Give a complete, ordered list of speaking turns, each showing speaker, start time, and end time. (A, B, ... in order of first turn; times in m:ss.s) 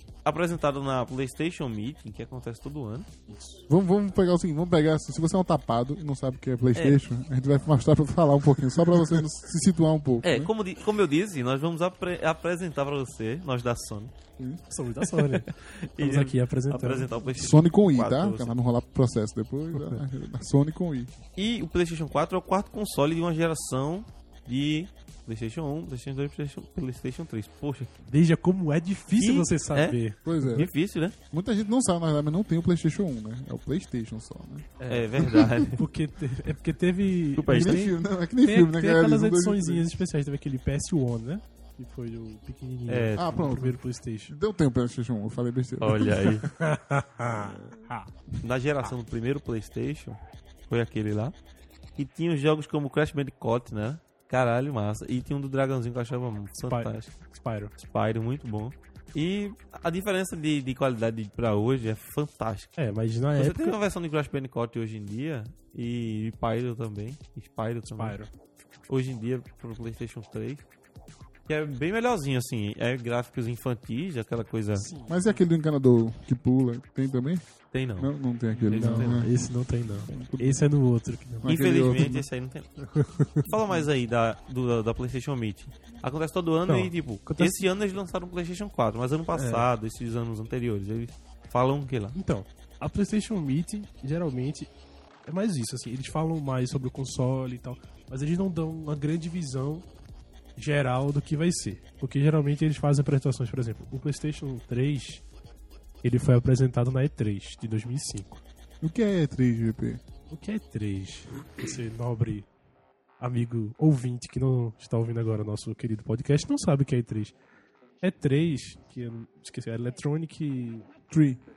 0:00.2-0:03.1 A
0:03.3-0:03.6 B
0:03.7-0:10.5 C
0:06.7-0:07.0 A
0:10.2-0:14.1 A
0:14.7-0:17.1 B
0:15.0-0:18.6 A
0:17.3-0:21.1 C
0:21.4-0:27.9 A
0:28.1-0:30.2 B
0:29.2-0:31.1 A
0:30.2-0:30.7 C
0:31.3-0:35.7 C
0:34.8-0:44.4 B
0:34.9-0:35.8 A
0:37.4-0:37.8 A
0:37.5-0:39.8 C
0:42.9-0:43.4 A
0:43.2-0:43.8 C
0:44.3-0:46.4 C
0:45.8-0:46.5 A
0:46.4-0:48.1 B
0:48.4-0:50.2 A
0:50.7-0:51.3 A
0:52.0-0:57.1 A
0:56.6-0:57.7 B
0:57.8-1:02.7 A
1:02.8-1:03.8 B
1:03.4-1:08.2 A
1:07.9-1:08.3 B
1:08.9-1:10.6 A
1:11.5-1:14.9 A
1:14.7-1:15.4 B
1:15.1-1:17.4 C
1:17.7-1:19.3 A
1:18.0-1:19.3 C
1:18.7-1:21.5 B
1:20.0-1:20.6 C
1:21.4-1:22.2 C
1:21.5-1:22.8 A
1:22.8-1:23.5 B
1:23.4-1:32.2 A
1:26.7-1:27.6 B
1:29.3-1:29.7 B
1:32.1-1:34.7 B
1:35.2-1:39.9 B
1:40.6-1:45.2 B
1:46.0-1:48.4 B
1:48.8-1:50.0 C
1:50.3-1:52.5 B
1:53.2-1:57.3 B
1:58.0-2:00.9 B
2:01.1-2:01.4 C